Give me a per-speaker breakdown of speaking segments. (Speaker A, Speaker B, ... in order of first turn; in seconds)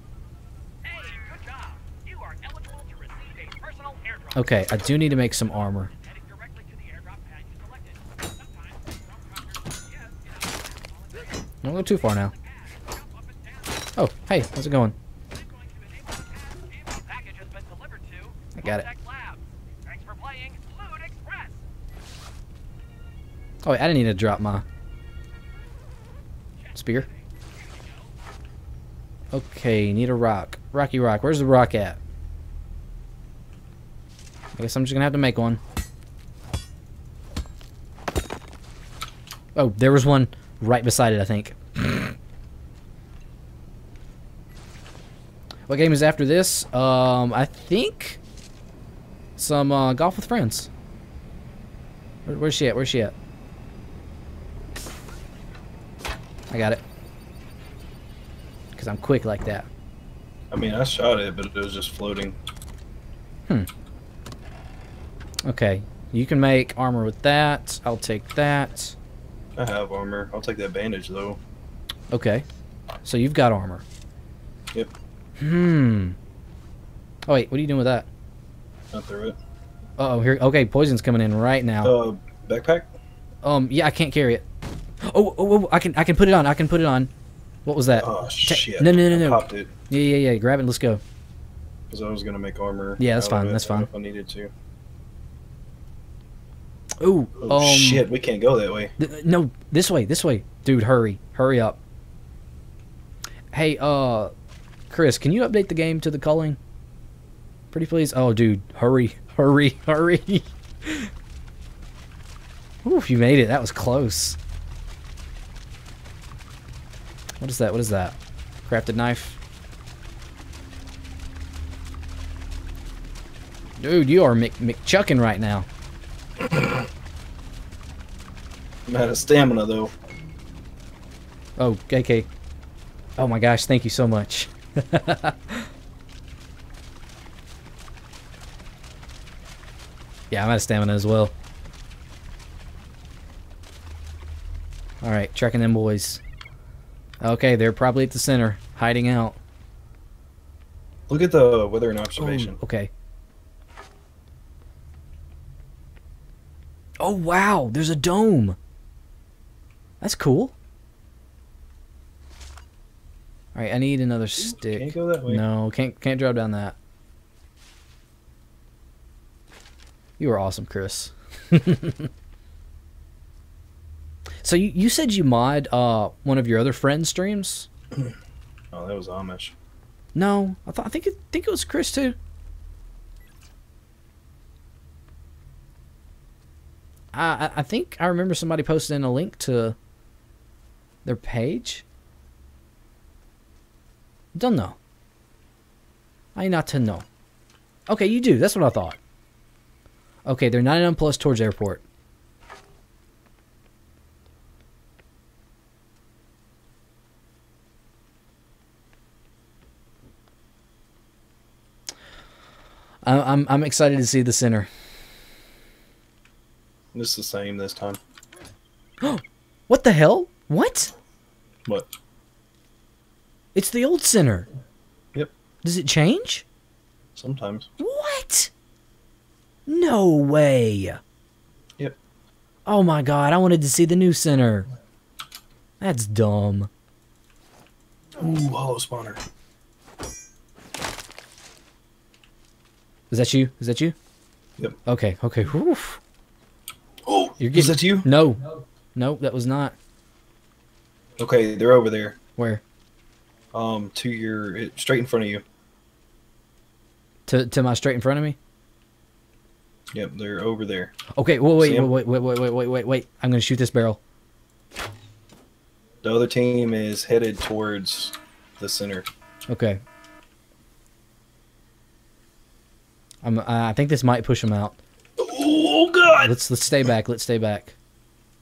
Speaker A: 0.8-4.3, 6.0-11.3, 12.8-13.5, 15.4-21.6
Speaker B: 4.3-5.9, 11.6-12.3, 14.0-14.9, 18.5-18.9, 23.6-24.6, 26.7-27.1, 29.3-32.0, 34.5-35.6, 39.5-42.2, 45.7-48.2, 49.4-50.7, 52.2-53.1, 56.5-56.8, 58.7-59.7, 65.5-69.0, 72.1-72.4, 73.0-73.8, 75.4-76.2, 77.3-78.1, 80.0-81.9, 83.4-84.4, 85.0-87.1, 87.7-91.0, 93.0-93.9, 97.0-98.1, 99.0-101.8, 103.5-104.3, 104.9-106.6, 107.7-111.1, 112.8-114.4, 117.4-119.4, 123.8-125.7, 131.6-132.3, 133.2-135.7, 140.3-141.3, 145.0-146.2, 147.2-149.4, 152.2-152.9, 157.0-158.6, 160.0-160.5, 163.5-166.8, 170.2-172.1, 174.4-177.7, 180.1-182.2, 187.1-189.8, 191.0-191.8, 194.3-194.8, 196.3-197.1, 197.9-199.0, 200.2-201.8, 213.0-214.7, 219.0-220.9, 223.5-224.5, 225.6-226.4, 227.8-228.5, 229.7-231.0, 232.7-234.7, 235.8-236.7, 243.1-243.9, 244.8-246.0, 247.4-249.8, 252.4-252.6, 257.3-258.4, 261.1-264.0, 269.5-269.8, 273.2-274.8, 276.1-277.8
Speaker C: 60.5-62.4, 69.5-71.4, 78.9-79.4, 81.8-82.9, 88.0-89.7, 91.9-94.5, 97.4-99.0, 126.4-126.8, 128.9-129.9, 151.1-152.6, 164.4-165.4, 178.7-179.5, 216.9-218.0, 227.2-227.7, 238.2-239.2, 247.0-248.1, 251.2-252.2, 253.5-255.4, 259.9-260.9, 261.6-261.9, 266.0-269.1, 275.2-276.4